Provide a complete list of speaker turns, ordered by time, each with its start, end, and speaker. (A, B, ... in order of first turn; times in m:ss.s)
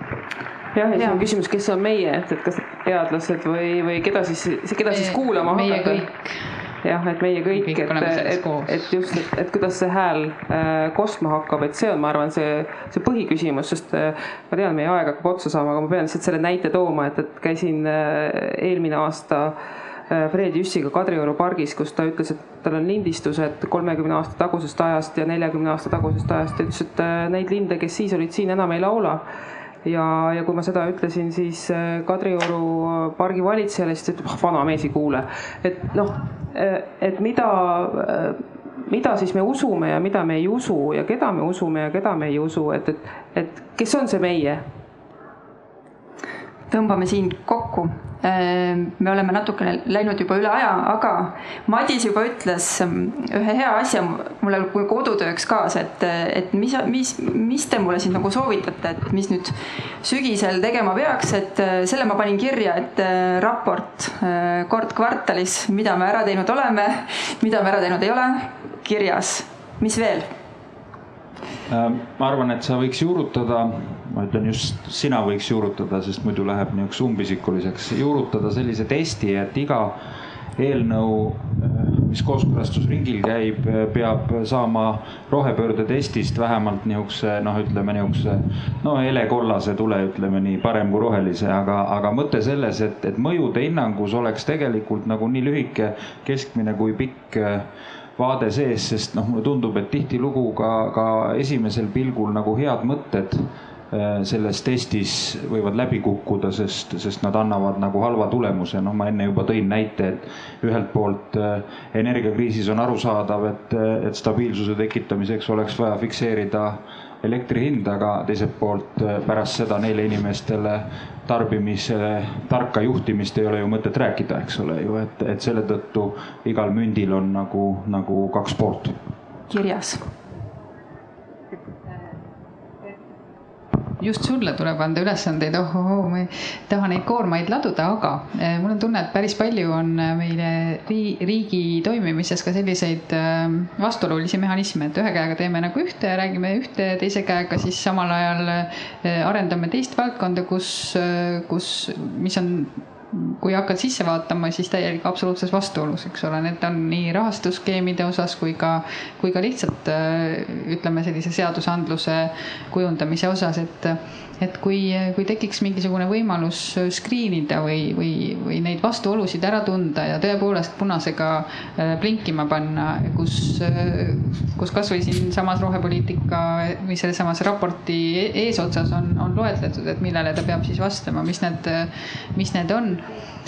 0:00.7-0:06.1 A
0:04.9-0:06.6 B
0:06.8-0:19.6 A
0:07.5-0:08.8 B
0:20.1-0:29.2 A
0:29.8-0:44.6 A
0:46.7-1:10.3 C
1:11.7-1:20.0 D
1:20.6-2:09.0 D
2:09.5-2:10.0 C
2:14.0-3:03.1 B